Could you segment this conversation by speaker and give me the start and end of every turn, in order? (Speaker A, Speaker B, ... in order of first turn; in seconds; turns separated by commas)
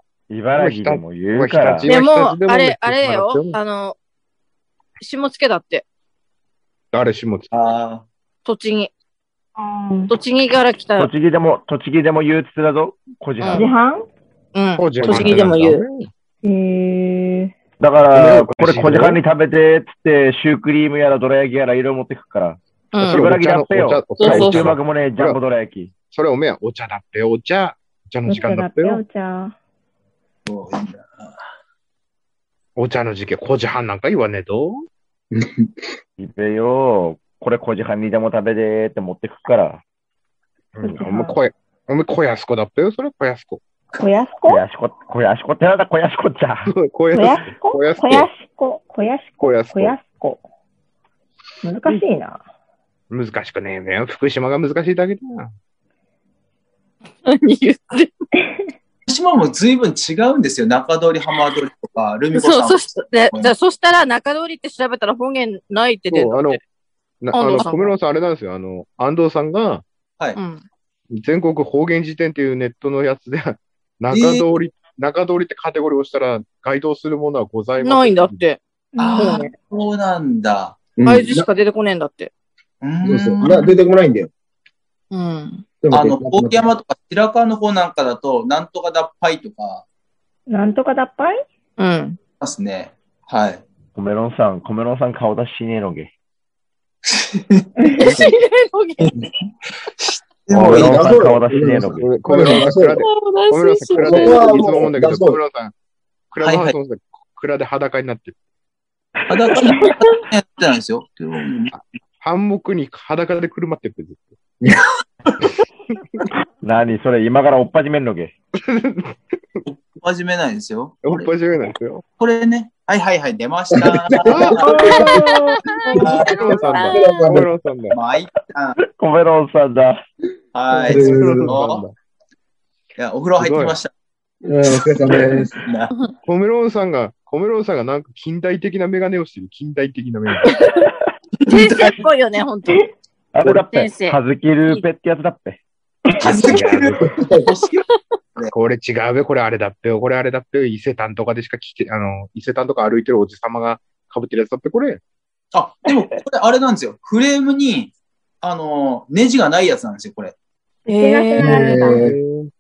Speaker A: 0.3-1.9, Speaker B: 0.6-3.6, Speaker C: 1.9-4.0, Speaker C: 5.0-5.8, Speaker B: 6.9-7.5, Speaker D: 7.5-8.0, Speaker C: 8.4-8.9, Speaker E: 9.6-10.1, Speaker C: 10.1-11.1, Speaker A: 11.0-13.7, Speaker C: 13.4-13.7, Speaker E: 13.5-14.1, Speaker C: 14.6-15.8, Speaker B: 14.8-16.1, Speaker E: 16.4-17.6, Speaker A: 17.8-25.9, Speaker B: 18.1-19.2, Speaker C: 22.9-23.3, Speaker B: 23.1-25.4, Speaker C: 24.2-24.6, Speaker B: 26.1-29.0, Speaker E: 28.3-29.5, Speaker D: 30.5-31.4, Speaker B: 32.8-34.8, Speaker F: 35.3-35.7, Speaker A: 36.2-39.8, Speaker B: 40.8-43.6, Speaker E: 40.8-41.4, Speaker E: 44.0-44.6, Speaker A: 44.4-46.7, Speaker B: 46.7-48.3, Speaker E: 47.1-50.4, Speaker B: 49.4-50.0, Speaker E: 51.6-52.4, Speaker B: 53.1-55.5, Speaker C: 57.2-58.2, Speaker D: 59.1-63.5, Speaker C: 62.3-66.6, Speaker B: 66.1-66.6, Speaker B: 67.2-69.8, Speaker C: 67.3-67.9, Speaker C: 70.4-70.6, Speaker B: 71.1-78.4, Speaker D: 74.1-74.5, Speaker C: 77.8-78.6, Speaker E: 79.0-79.5, Speaker D: 79.0-80.9, Speaker C: 79.2-79.5, Speaker F: 81.0-81.5, Speaker C: 81.1-82.3, Speaker D: 82.8-83.7, Speaker F: 83.0-84.3, Speaker C: 85.1-85.6, Speaker F: 85.8-86.7, Speaker D: 85.9-89.8, Speaker E: 90.5-91.4, Speaker C: 91.8-92.2, Speaker D: 92.4-93.6, Speaker A: 94.0-96.1, Speaker D: 97.1-98.2, Speaker C: 98.0-99.1, Speaker D: 100.0-101.1, Speaker A: 100.5-102.1, Speaker F: 100.5-103.0, Speaker B: 102.0-105.7, Speaker C: 103.0-104.5, Speaker F: 104.0-105.4, Speaker B: 106.3-108.3, Speaker D: 106.4-106.7, Speaker D: 109.3-111.8, Speaker B: 112.2-114.3, Speaker A: 116.6-118.3, Speaker B: 118.6-119.6, Speaker D: 119.7-121.3, Speaker B: 121.0-122.0, Speaker D: 122.2-124.9, Speaker F: 123.8-125.2, Speaker B: 124.2-128.0, Speaker C: 124.6-127.2, Speaker D: 126.0-126.7, Speaker F: 126.0-126.3, Speaker F: 126.9-127.5, Speaker D: 127.9-128.8, Speaker A: 128.4-130.0, Speaker D: 130.6-131.8, Speaker B: 130.8-131.9, Speaker F: 130.8-131.5, Speaker D: 133.0-133.9, Speaker B: 133.4-133.8, Speaker F: 134.4-135.6, Speaker D: 135.6-135.9, Speaker B: 136.2-140.6, Speaker C: 140.4-140.8, Speaker C: 141.5-142.9, Speaker D: 141.5-141.9, Speaker A: 143.3-145.6, Speaker C: 143.5-144.8, Speaker D: 146.2-147.8, Speaker B: 146.4-147.1, Speaker F: 147.2-147.5, Speaker B: 148.5-155.0, Speaker D: 155.5-160.3, Speaker C: 160.9-161.9, Speaker E: 161.0-162.0, Speaker F: 161.4-162.2, Speaker B: 161.8-162.5